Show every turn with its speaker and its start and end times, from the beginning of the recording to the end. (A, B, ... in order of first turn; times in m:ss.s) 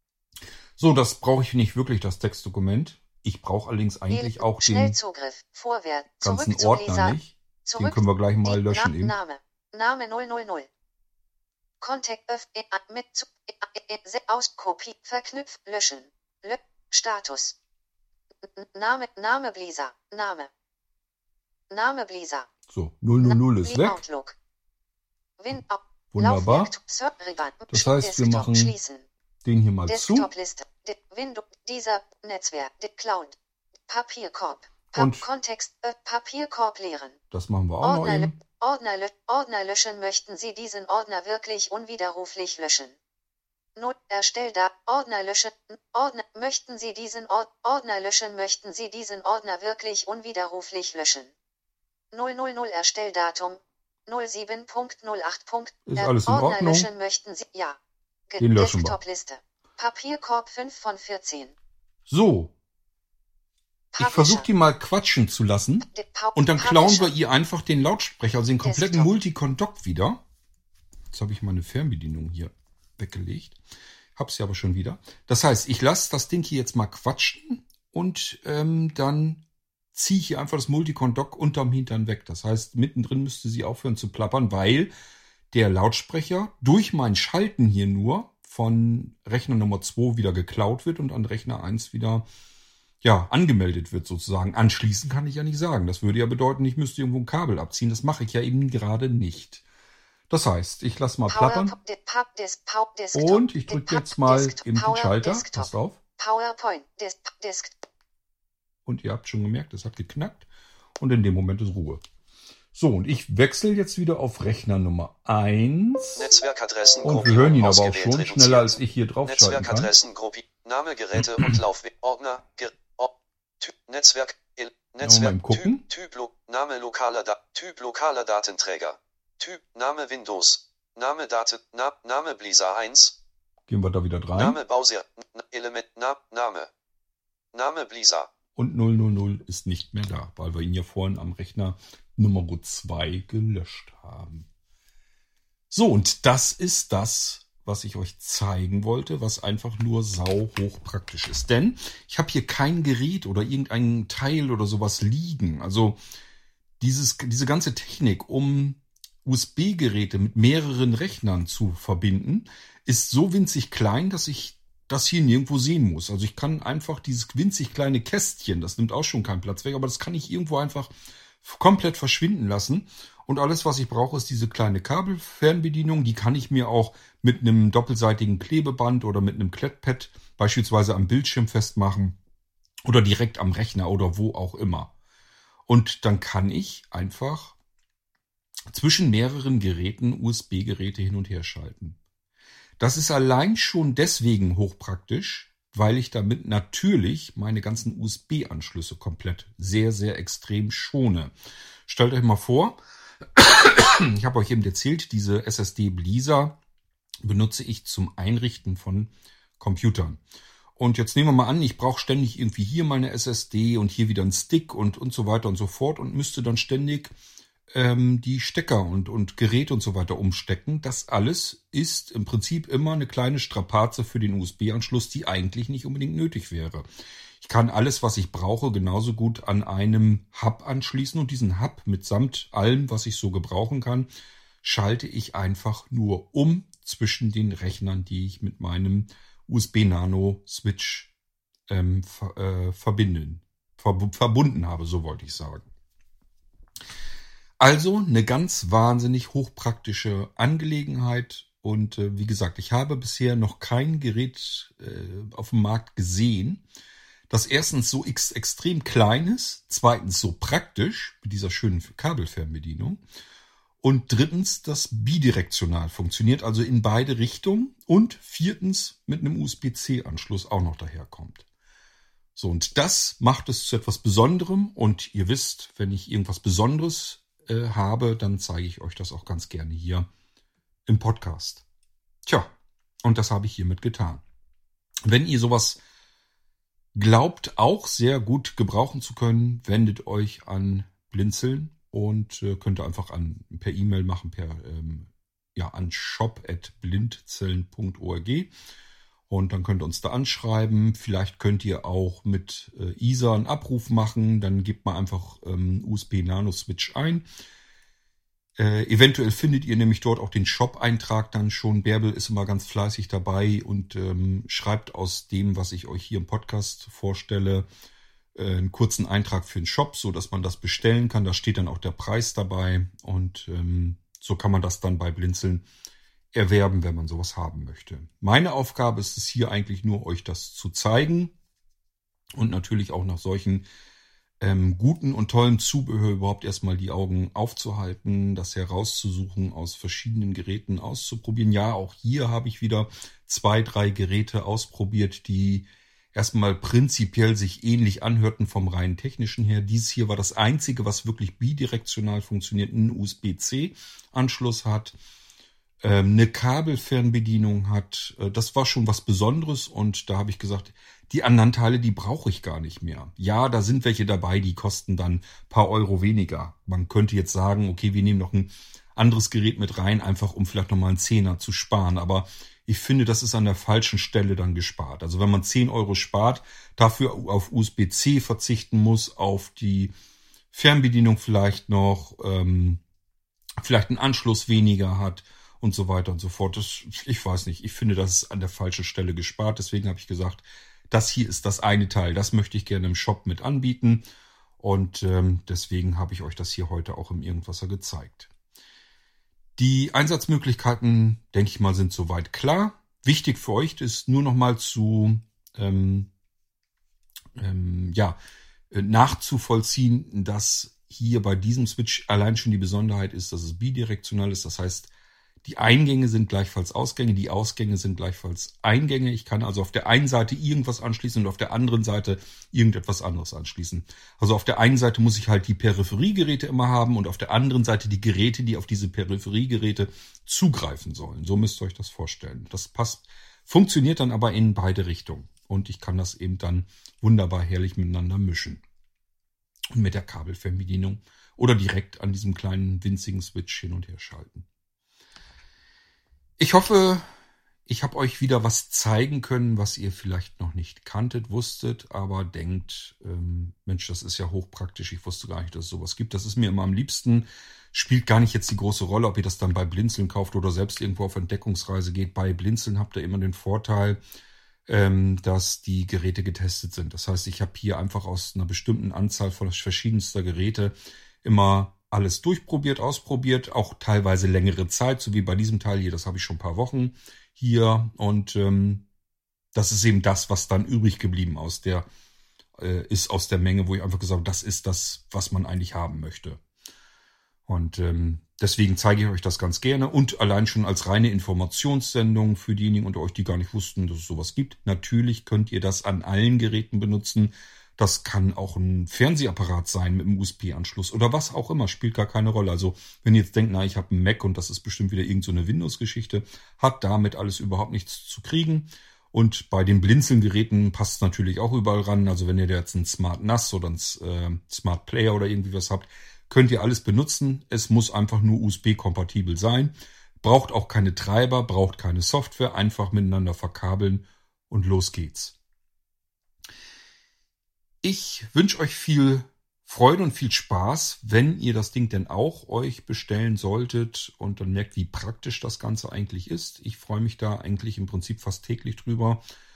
0:00.8-0:05.0 A
0:04.1-0:10.7 B
0:06.2-0:09.2 A
0:11.8-0:17.6 B
0:18.4-0:20.5 B
0:21.7-0:22.5 B
0:22.7-0:24.0 A
0:23.2-0:24.4 B
0:25.4-0:29.1 B
0:26.1-0:26.7 A
0:27.7-0:28.7 A
0:29.4-0:30.3 A
0:29.9-0:37.2 B
0:34.9-0:35.3 A
0:37.3-0:38.4 A
0:37.8-0:43.0 B
0:43.8-0:51.3 B
0:52.1-0:57.8 B
0:55.9-0:56.9 A
0:58.3-1:01.6 B
0:58.4-0:59.0 A
1:02.1-1:02.5 A
1:03.9-1:04.5 B
1:04.0-1:10.2 A
1:05.9-1:07.1 B
1:08.6-1:09.1 B
1:11.1-1:13.6 A
1:14.2-1:19.4 A
1:19.9-1:24.9 A
1:25.5-1:32.3 A
1:33.0-1:39.6 A
1:40.3-1:41.7 A
1:41.3-1:47.8 B
1:43.1-1:46.0 A
1:48.8-1:50.5 A
1:51.0-1:52.0 A
1:52.7-1:56.3 A
1:56.2-2:13.2 C
1:57.0-1:59.9 A
2:01.2-2:01.6 A
2:05.0-2:05.8 A
2:13.7-2:14.6 A
2:14.3-2:16.7 C
2:17.5-2:18.3 C
2:18.6-2:24.5 A
2:25.7-2:36.0 A
2:36.8-3:02.2 A
3:02.8-3:04.9 A
3:05.7-3:07.6 A
3:08.7-3:12.0 A
3:12.8-3:21.3 A
3:21.8-3:22.8 A
3:23.4-3:26.6 A
3:27.2-3:30.2 A
3:30.8-3:37.1 A
3:37.7-3:46.8 A
3:47.4-3:54.1 A
3:54.6-4:01.1 A
4:01.7-4:05.6 A
4:07.6-4:16.6 A
4:17.3-4:23.0 A
4:23.8-4:31.4 A
4:32.4-4:40.1 A
4:40.9-4:41.6 A
4:42.2-4:42.5 A
4:43.0-4:44.2 A
4:45.0-4:45.8 A
4:46.9-4:58.5 A
4:59.3-5:07.2 A
5:08.6-5:17.7 A
5:18.3-5:25.6 A
5:26.3-5:31.3 A
5:32.3-5:33.6 A
5:34.4-5:54.9 A
5:55.8-6:19.9 A
6:20.5-6:22.8 A
6:23.6-6:34.0 A
6:34.6-6:38.3 A
6:39.6-6:46.1 A
6:47.4-6:48.2 A
6:48.7-6:54.9 A
6:55.4-7:18.6 A
7:19.7-7:24.4 A
7:26.4-7:27.0 A
7:27.7-7:44.0 A
7:44.7-7:58.8 A
7:59.5-8:01.9 A
8:02.6-8:06.4 A
8:07.5-8:45.3 A
8:47.8-8:59.2 A